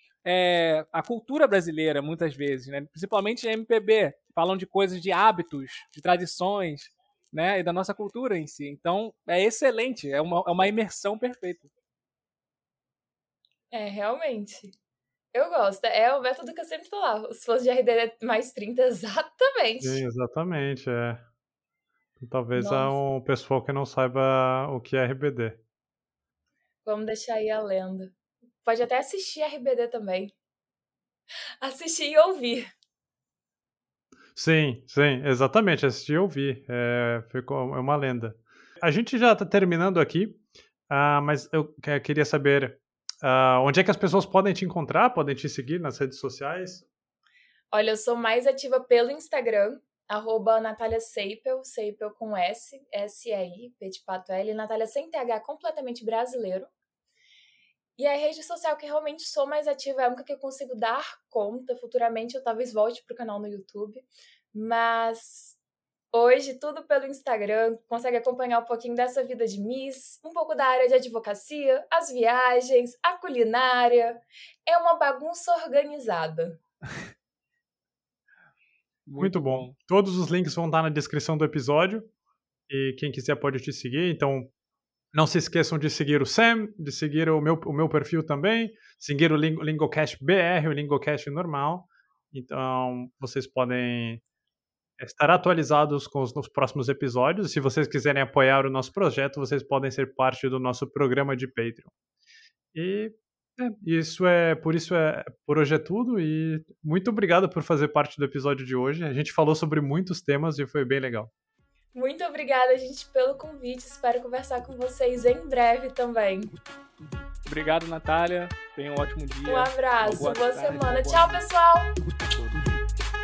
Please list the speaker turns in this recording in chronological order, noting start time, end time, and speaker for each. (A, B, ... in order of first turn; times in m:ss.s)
0:00.2-0:11.7 A
0:13.7-0:14.7 B
0:15.3-0:20.0 B
0:19.8-0:21.2 C
0:22.2-0:25.6 C
0:22.6-0:23.0 B
0:26.8-0:30.4 B
0:31.6-0:32.7 B
0:34.4-0:46.9 C
0:47.7-0:56.7 B
0:58.0-1:05.6 B
1:06.1-1:16.6 B
1:19.1-1:19.8 A
1:19.2-1:22.1 C
1:22.7-1:24.5 C
1:25.1-1:34.2 C
1:35.0-1:41.9 C
1:42.7-1:51.3 C
1:51.9-1:56.5 B
1:57.5-2:01.4 A
1:59.4-2:02.0 B
2:02.3-2:02.6 A